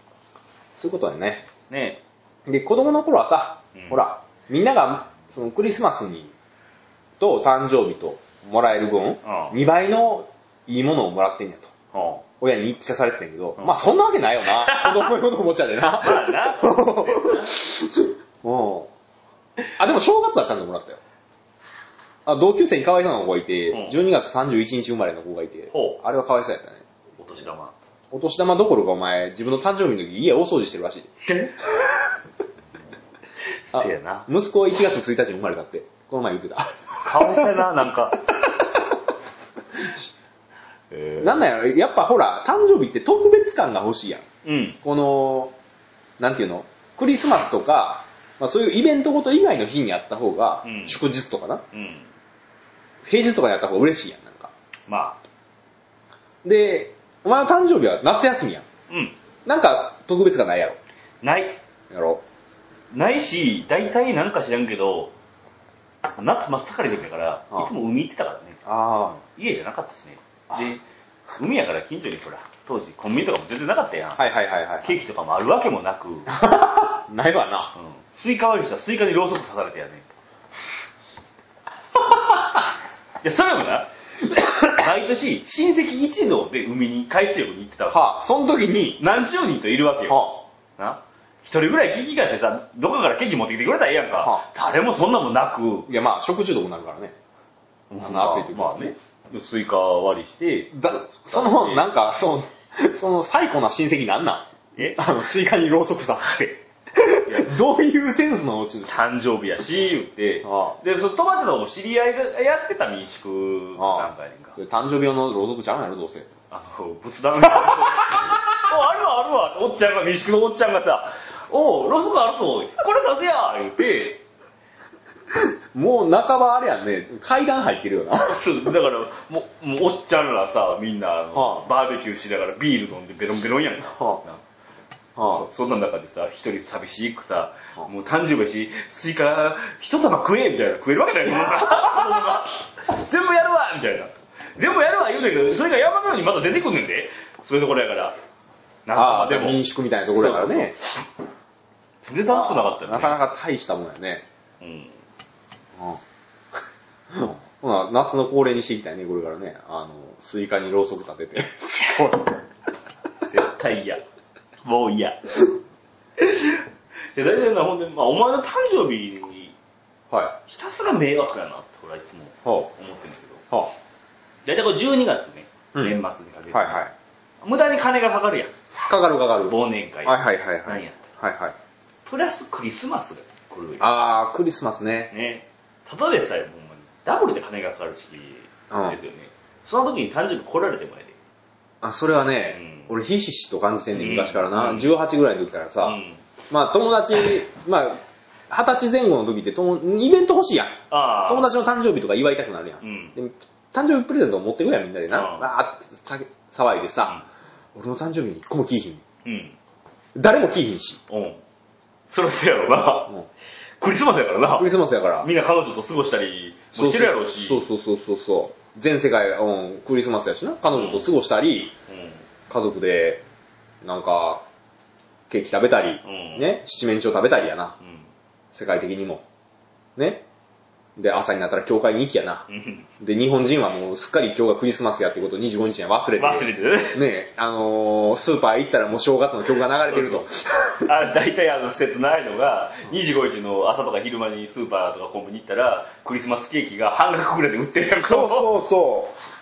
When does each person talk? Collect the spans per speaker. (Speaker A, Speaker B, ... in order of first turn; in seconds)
Speaker A: 0.8-1.5, 2.5-6.3, 7.2-11.7, 12.4-18.9, 19.8-21.0, 22.3-26.8, 28.1-31.1, 33.7-37.6, 41.2-44.2, 44.8-45.5, 46.2-51.6, 53.0-54.5, 56.4-58.7, 59.5-60.8, 61.9-62.2, 68.7-69.2, 74.2-75.0, 76.3-77.7, 87.9-89.0, 90.1-90.4, 95.9-97.2, 98.0-98.9, 100.7-109.0, 110.4-110.8, 113.8-116.3, 117.4-118.5, 125.3-128.4, 131.3-131.7, 134.0-134.2, 135.2-135.5, 148.9-150.8, 152.3-154.3, 155.8-156.0, 157.1-162.4, 170.1-170.4, 172.4-172.7, 176.5-176.9, 178.8-181.6, 183.8-185.1, 188.7-189.0, 191.8-196.0, 196.5-198.0, 198.5-207.2, 207.8-209.0, 210.2-211.0, 214.6-215.3, 216.8-221.7, 222.5-223.2, 223.8-224.4, 225.3-227.8, 228.5-229.2, 230.0-230.2, 231.0-232.5, 233.0-240.7, 247.9-249.2
Speaker B: 1.7-2.0, 3.8-4.0, 9.2-9.6, 11.9-12.2, 14.5-15.1, 16.0-17.6, 23.7-24.0, 25.7-26.0, 27.2-27.8, 31.2-31.8, 33.6-34.3, 37.0-38.2, 40.9-41.5, 44.4-44.8, 50.6-51.0, 51.7-52.1, 54.9-55.2, 58.9-59.2, 61.2-61.6, 62.9-65.1, 66.2-68.6, 69.2-70.8, 71.4-74.3, 74.8-76.3, 77.8-80.1, 83.2-88.0, 89.0-95.9, 97.9-101.9, 104.8-105.0, 107.3-107.5, 108.9-114.6, 116.5-124.2, 128.2-134.4, 135.3-148.2, 148.9-149.6, 150.1-150.8, 152.0-153.2, 154.6-154.9, 163.2-164.0, 164.6-165.6, 166.2-169.6, 170.5-173.4, 174.4-176.8, 177.4-178.5, 179.5-181.1, 182.1-183.9, 185.1-191.2, 192.5-192.9, 193.9-194.9, 195.8-196.2, 200.9-201.5, 202.8-203.2, 205.1-205.5, 209.2-209.6, 211.1-211.4, 212.1-213.1, 213.8-217.6, 220.7-221.1, 221.9-222.2, 226.0-226.5, 227.8-228.1, 232.5-232.9, 236.2-237.0, 239.9-248.5